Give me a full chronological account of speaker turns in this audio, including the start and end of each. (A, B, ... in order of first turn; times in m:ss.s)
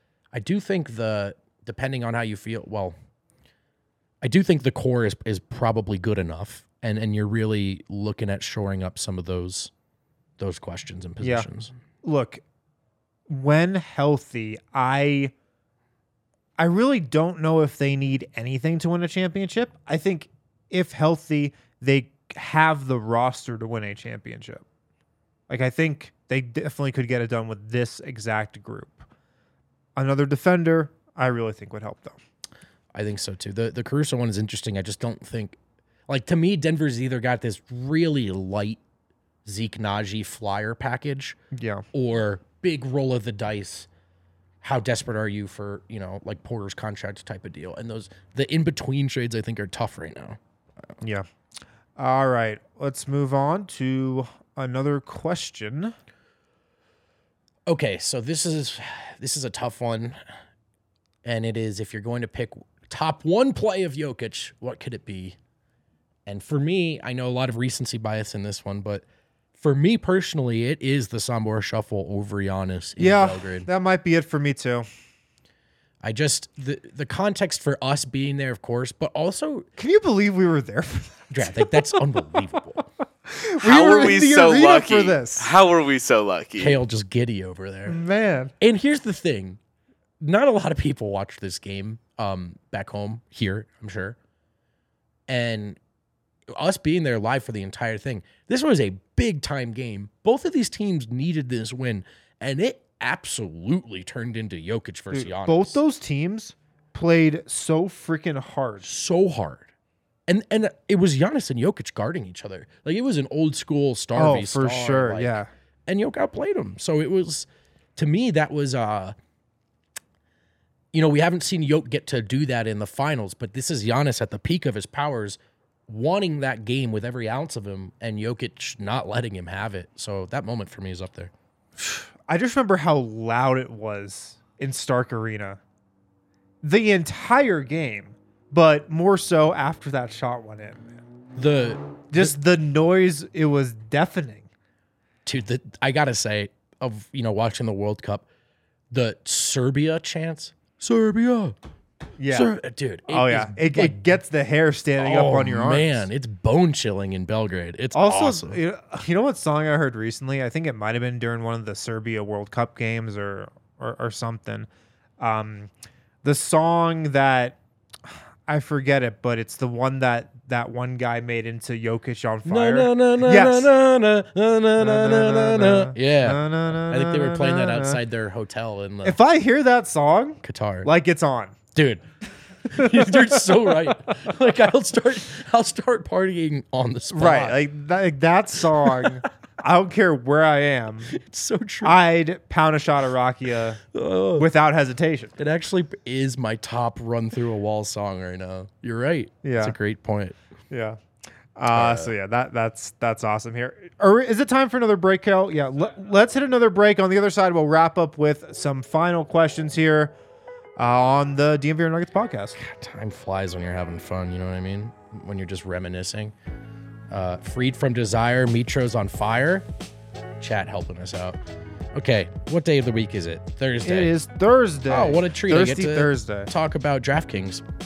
0:00.3-0:03.0 A
0:04.2-0:09.7 A
0:10.4-0:11.7 A
0:11.2-0:11.5 B
0:12.0-0:12.4 B
0:13.3-0:15.3 B
0:16.6-0:24.6 B
0:25.5-0:29.1 B
0:30.0-0:32.2 B
0:32.9-0:35.6 A
0:36.1-0:38.8 A
0:39.4-0:41.4 A
0:41.5-0:41.8 B
0:41.9-0:43.9 A
0:44.6-0:50.4 A
0:51.0-0:51.3 B
0:52.0-0:56.0 B
0:57.7-1:00.2 A
1:01.2-1:05.4 A
1:06.3-1:09.0 A
1:09.6-1:13.7 A
1:13.0-1:14.9 B
1:16.0-1:19.7 A
1:19.8-1:22.0 B
1:21.3-1:22.8 A
1:23.3-1:25.5 B
1:23.6-1:26.8 C
1:26.6-1:28.0 A
1:27.9-1:28.5 B
1:28.6-1:29.6 A
1:30.2-1:34.2 A
1:35.3-1:35.8 A
1:36.5-1:45.8 A
1:45.1-1:48.9 B
1:48.8-1:49.7 A
1:50.3-1:59.2 A
1:54.2-1:55.5 B
2:00.9-2:11.3 A
2:11.8-2:15.6 B
2:16.6-2:21.0 B
2:21.4-2:22.4 A
2:22.1-2:24.5 B
2:25.2-2:28.3 A
2:28.9-2:31.6 A
2:32.2-2:32.5 B
2:32.3-2:34.0 A
2:33.1-2:36.0 B
2:35.0-2:38.6 A
2:37.9-2:44.7 B
2:45.2-2:45.7 B
2:46.2-2:53.7 B
2:52.4-2:59.2 A
2:54.8-2:58.0 B
2:59.0-3:01.6 B
3:00.4-3:00.9 A
3:01.8-3:02.0 A
3:02.7-3:07.6 A
3:02.7-3:03.9 B
3:07.1-3:11.1 B
3:11.1-3:12.0 A
3:11.8-3:13.8 B
3:13.9-3:14.5 A
3:14.4-3:15.3 B
3:15.4-3:20.4 A
3:19.4-3:19.8 B
3:20.7-3:21.0 B
3:21.6-3:30.2 B
3:21.7-3:22.1 A
3:30.8-3:32.6 B
3:32.6-3:36.3 A
3:37.1-3:39.6 A
3:40.4-3:41.4 A
3:42.0-3:44.1 A
3:43.8-3:46.5 B
3:44.9-3:47.6 A